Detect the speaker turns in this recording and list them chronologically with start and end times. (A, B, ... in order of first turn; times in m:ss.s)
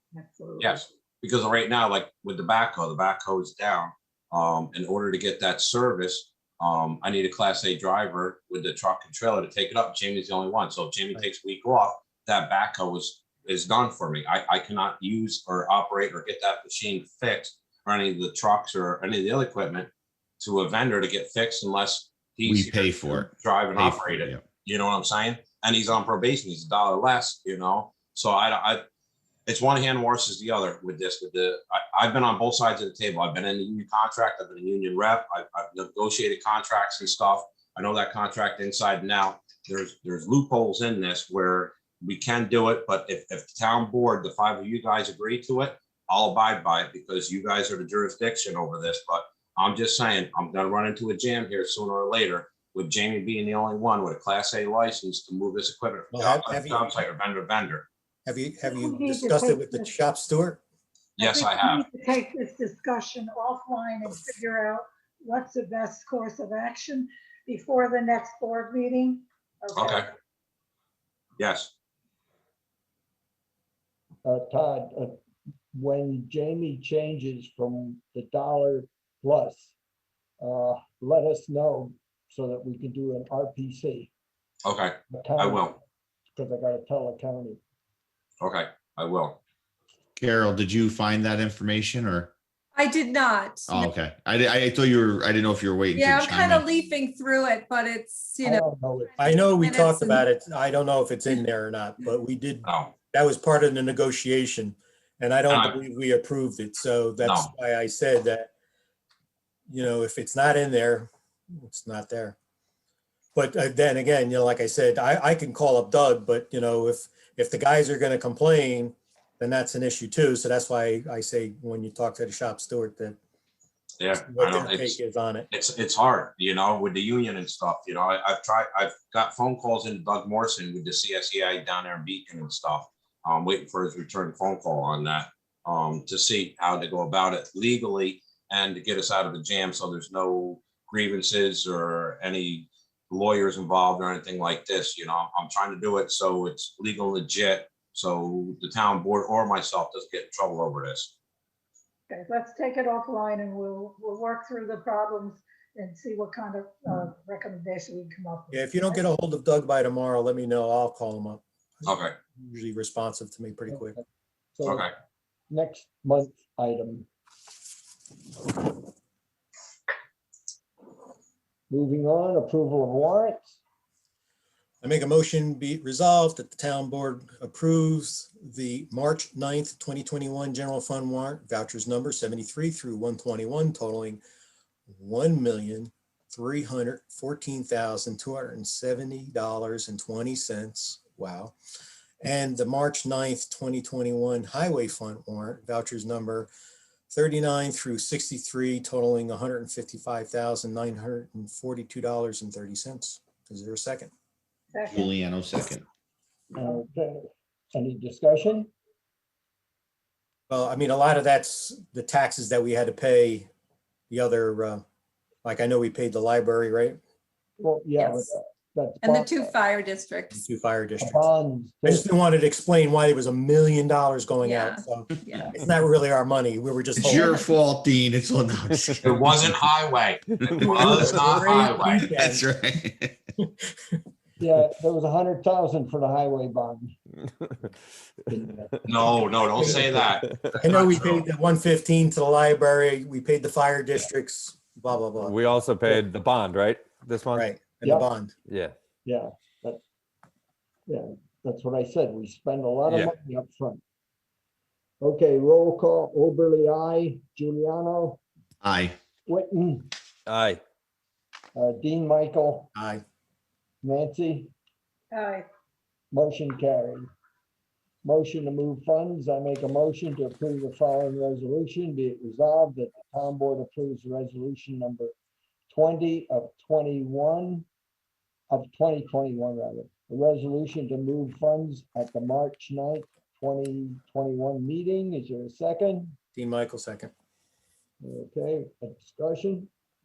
0:00.2-0:00.7 A
0:00.6-0:28.8 B
0:22.4-0:24.4 C
0:29.5-0:57.9 B
0:56.1-0:56.9 D
0:58.3-1:00.6 D
0:58.7-0:59.9 A
1:01.2-1:01.8 B
1:01.2-1:10.0 A
1:09.7-1:10.0 B
1:11.4-1:11.7 B
1:14.2-1:15.1 E
1:15.7-1:19.7 E
1:20.4-1:24.1 E
1:24.6-1:25.8 B
1:25.1-1:25.8 E
1:26.4-1:27.6 E
1:28.4-1:29.4 B
1:30.2-1:32.3 C
1:32.8-1:33.9 F
1:33.7-1:36.7 C
1:36.0-1:38.6 F
1:38.4-1:39.3 E
1:39.2-1:48.5 D
1:39.3-1:40.2 F
1:42.7-1:42.9 B
1:45.5-1:45.8 B
1:47.2-1:47.5 B
1:49.7-1:52.4 D
1:53.4-2:03.2 D
2:04.0-2:05.0 B
2:04.3-2:05.5 D
2:05.5-2:31.1 B
2:32.1-2:38.9 A
2:38.5-2:44.0 D
2:41.8-2:42.1 B
2:44.6-2:44.9 E
2:45.5-2:47.1 E
2:51.7-2:53.5 E
2:54.8-3:04.2 D
3:04.9-3:11.6 D
3:12.2-3:16.5 D
3:17.1-3:24.1 D
3:24.7-3:25.0 A
3:24.9-3:25.8 C
3:26.5-3:28.7 E
3:30.5-3:33.5 D
3:34.1-3:34.8 D
3:35.4-3:37.0 D
3:37.6-3:39.6 E
3:38.0-3:38.3 F
3:39.0-3:40.5 F
3:40.3-3:41.2 D
3:41.0-3:42.1 E
3:41.9-3:47.4 D
3:44.4-3:45.6 F
3:47.0-3:49.3 C
3:47.1-3:47.5 F
3:48.7-3:49.2 G
3:49.0-3:52.1 B
3:50.3-3:51.6 G
3:50.5-3:52.4 D
3:51.8-3:53.2 C
3:54.4-3:56.9 E
3:58.3-3:58.7 E
3:58.9-4:01.3 B
3:59.6-3:59.9 D
4:00.1-4:00.5 G
4:00.6-4:05.4 D
4:05.2-4:07.5 G
4:07.3-4:08.3 D
4:07.8-4:08.1 E
4:08.5-4:08.8 G
4:09.0-4:09.8 E
4:10.9-4:13.8 E
4:12.9-4:13.2 G
4:15.0-4:18.2 E
4:18.6-4:19.0 C
4:19.3-4:19.9 E
4:20.3-4:20.6 G
4:21.6-4:22.7 E
4:22.8-4:23.0 D
4:23.8-4:24.5 E
4:25.1-4:25.4 A
4:26.1-4:27.1 E
4:28.0-4:35.1 E
4:35.7-4:37.7 E
4:38.5-4:46.2 E
4:46.4-4:47.1 D
4:48.0-4:49.7 E